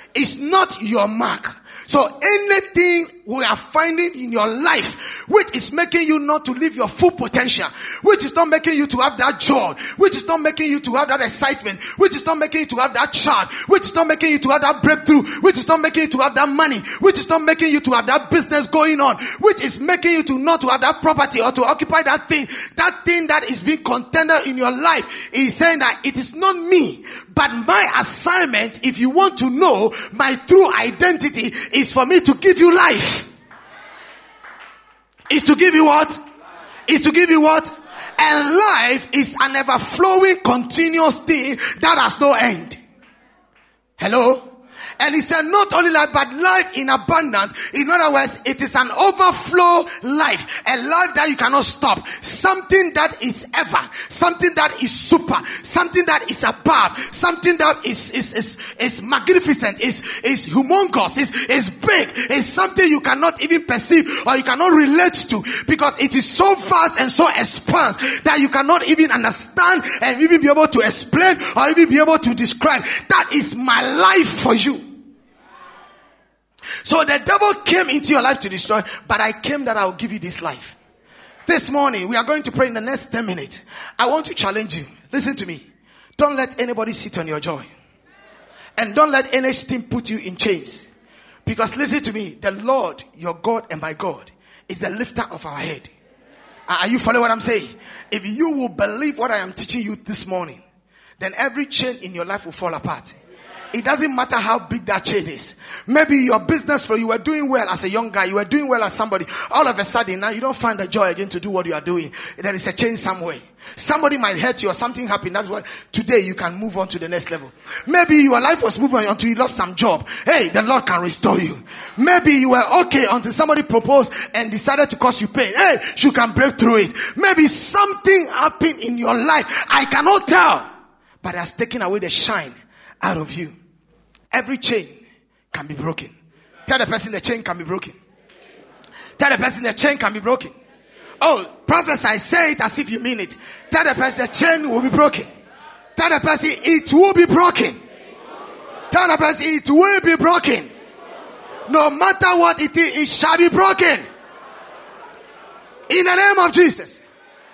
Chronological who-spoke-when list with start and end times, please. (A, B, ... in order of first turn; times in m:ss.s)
0:00.1-0:33.3 A
0:35.3-0:36.2 A
0:36.9-0:42.8 A
0:44.0-0:44.5 A
0:45.0-1:14.8 A
1:16.8-1:20.8 A
1:21.5-1:25.6 A
1:26.2-1:27.7 A
1:28.8-1:30.9 A
1:31.4-1:35.9 A
1:36.7-1:40.6 A
1:41.2-1:43.2 A
1:43.7-2:10.6 A
2:11.2-2:13.5 A
2:14.3-2:14.9 A
2:15.5-2:16.1 A
2:16.6-2:18.0 A
2:19.2-2:20.5 A
2:21.2-2:25.3 A
2:26.0-2:27.8 A
2:28.9-2:30.7 A
2:31.7-2:34.0 A
2:35.9-2:37.0 A